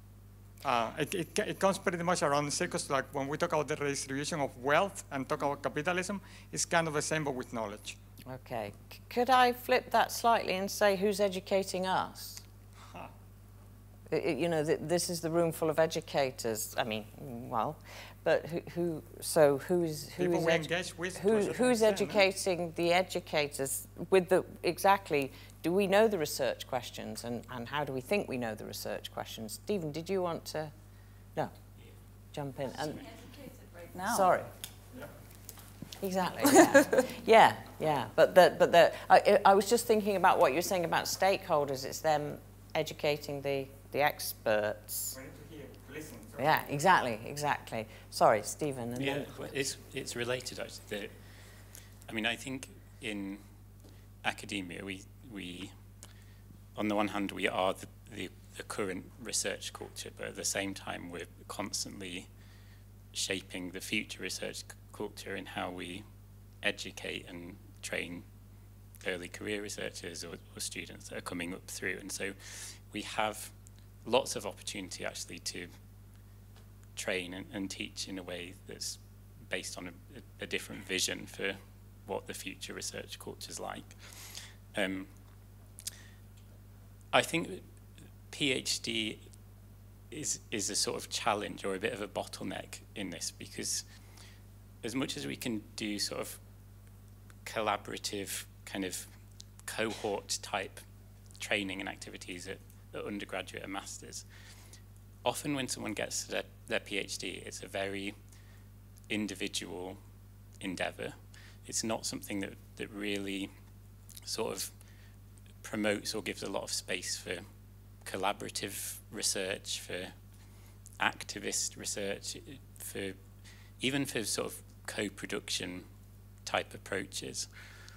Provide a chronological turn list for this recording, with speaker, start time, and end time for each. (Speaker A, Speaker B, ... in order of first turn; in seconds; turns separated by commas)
Speaker A: 0.6-8.0, Speaker B: 8.3-12.4, Speaker B: 14.1-30.7, Speaker A: 20.2-22.2, Speaker B: 32.2-33.2, Speaker B: 34.1-34.5, Speaker B: 36.0-45.2, Speaker A: 45.1-46.7, Speaker B: 46.4-49.5, Speaker C: 49.0-51.2, Speaker C: 52.0-53.7, Speaker C: 54.2-55.8, Speaker C: 56.8-62.3, Speaker C: 63.1-66.1, Speaker C: 66.6-68.3, Speaker C: 69.0-75.8, Speaker C: 77.0-85.2, Speaker C: 87.1-87.8, Speaker C: 88.3-89.3, Speaker C: 90.1-93.9, Speaker C: 94.8-96.4, Speaker C: 97.5-100.8, Speaker C: 101.4-104.3, Speaker C: 105.2-108.2, Speaker C: 109.1-110.0, Speaker C: 110.6-113.6, Speaker C: 114.3-114.9, Speaker C: 115.6-125.9, Speaker C: 126.4-127.5